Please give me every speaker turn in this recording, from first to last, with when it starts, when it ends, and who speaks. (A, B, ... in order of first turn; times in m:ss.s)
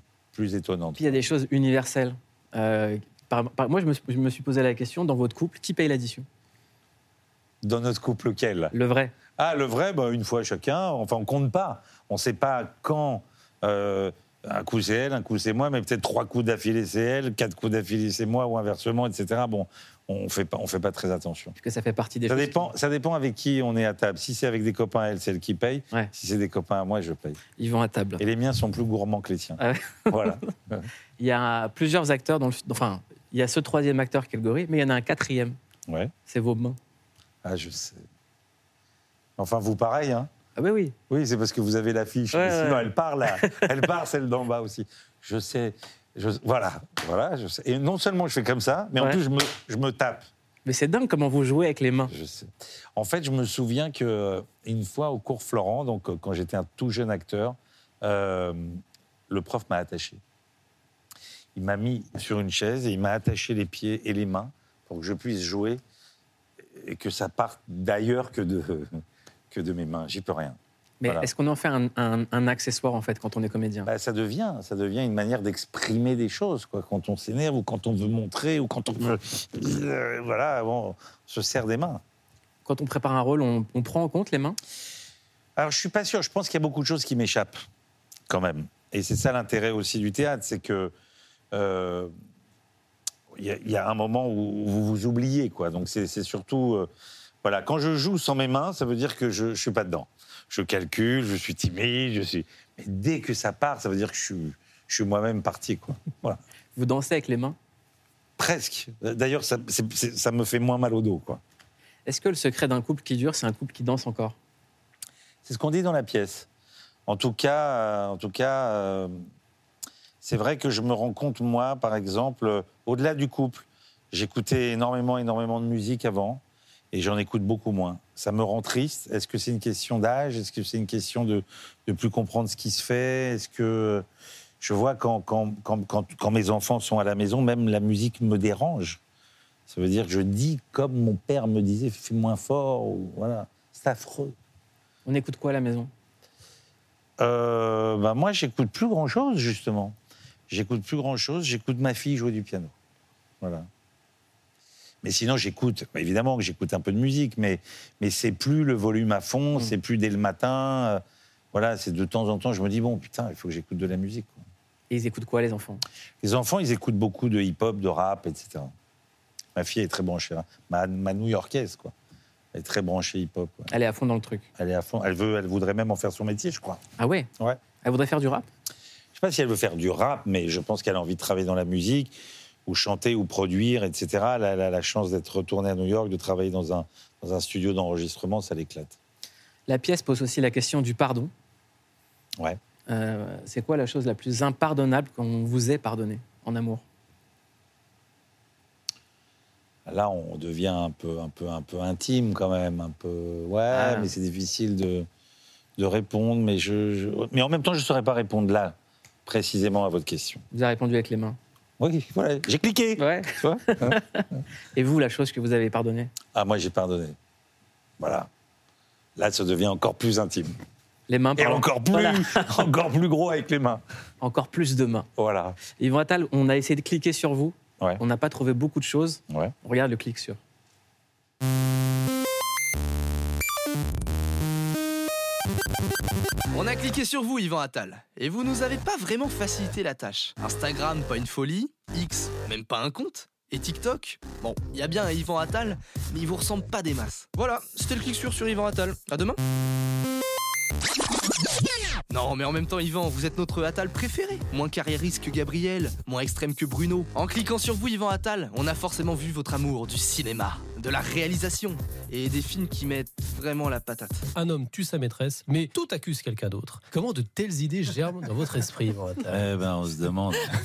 0:00.3-0:01.2 A
0:01.0-0:06.2 B
0:07.6-0:08.7 A
0:08.7-0:09.1 B
0:09.4-0:21.5 A
0:21.6-0:22.7 B
0:22.3-0:27.4 A
0:27.6-0:28.2 B
0:28.2-0:30.9 A
0:29.6-0:30.4 B
0:31.2-0:35.6 B
0:36.3-0:36.8 B
0:37.4-0:38.0 A
0:39.4-0:40.3 A
0:40.6-0:40.9 B
0:41.1-0:50.3 A
0:42.3-0:43.7 B
0:50.6-0:52.1 B
0:52.1-1:00.2 A
1:01.5-1:05.8 A
1:06.7-1:11.3 A
1:11.0-1:13.9 B
1:13.8-1:22.0 A
1:22.6-1:24.6 B
1:25.6-1:27.6 A
1:28.3-1:30.9 A
1:31.5-1:32.1 A
1:33.3-1:36.9 A
1:37.4-1:46.4 A
1:46.8-1:47.6 B
1:48.4-1:51.4 A
1:52.0-1:54.4 B
1:55.4-1:56.5 A
1:57.1-1:59.1 A
2:00.2-2:14.0 A
2:14.6-2:19.0 A
2:19.7-2:24.4 A
2:25.0-2:25.9 B
2:27.2-2:30.0 A
2:30.5-2:32.7 A
2:33.4-2:33.7 A
2:35.0-2:41.0 A
2:41.5-2:44.4 A
2:44.9-2:45.8 B
2:46.2-2:48.7 A
2:49.6-2:51.9 A
2:52.5-2:53.7 A
2:53.7-2:54.5 B
2:54.6-2:56.8 A
2:57.0-2:57.3 B
2:57.8-2:58.5 B
2:59.1-3:09.0 A
3:09.7-3:11.3 B
3:12.9-3:16.8 B
3:19.9-3:25.1 A
3:23.7-3:24.1 B
3:25.8-3:30.4 A
3:30.5-3:31.4 B
3:31.8-3:34.0 A
3:33.0-3:36.1 B
3:36.3-3:37.2 A
3:38.0-3:38.3 A
3:39.2-3:40.6 A
3:41.1-3:42.5 B
3:41.4-3:43.8 A
3:44.2-3:45.1 B
3:45.2-3:45.6 A
3:45.7-3:50.4 B
3:49.3-3:49.5 A
3:56.5-4:09.4 C
4:12.1-4:24.3 C
4:24.4-4:29.5 D
4:29.3-4:30.4 A